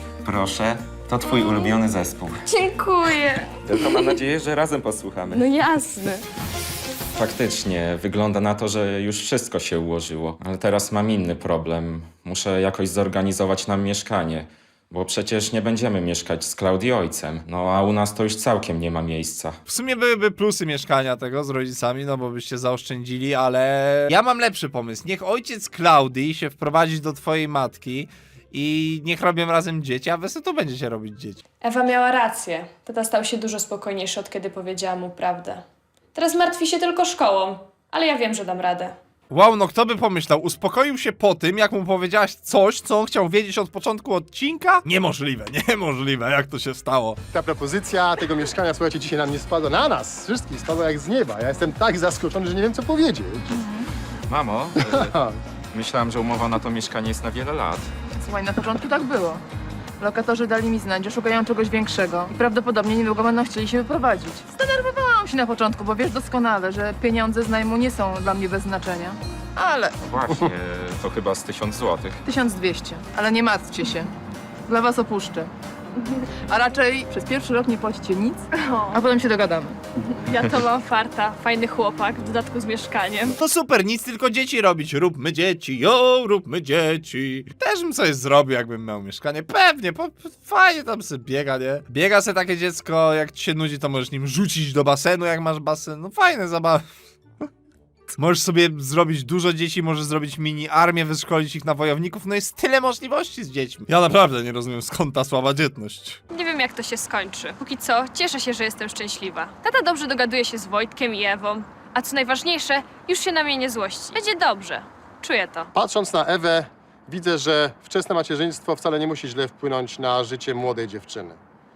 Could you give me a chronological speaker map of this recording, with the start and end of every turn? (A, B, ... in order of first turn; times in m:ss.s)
0:00.2-0:02.4 A
0:01.3-0:01.7 B
0:02.4-0:04.1 B
0:03.6-0:05.5 A
0:05.3-0:06.2 B
0:07.1-0:19.6 A
0:19.7-0:31.4 C
0:31.6-0:39.0 B
0:39.3-0:47.2 C
0:47.3-0:53.5 D
0:53.5-0:53.8 E
0:54.3-0:55.2 A
0:54.8-0:55.4 D
0:55.7-0:57.9 A
0:58.1-0:59.4 E
1:00.0-1:09.9 E
1:10.0-1:12.2 A
1:12.2-1:14.1 E
1:14.7-1:15.5 E
1:16.5-1:19.8 E
1:20.1-1:23.3 B
1:23.3-1:36.8 C
1:38.2-1:46.2 C
1:46.3-1:55.7 B
1:55.7-2:01.4 D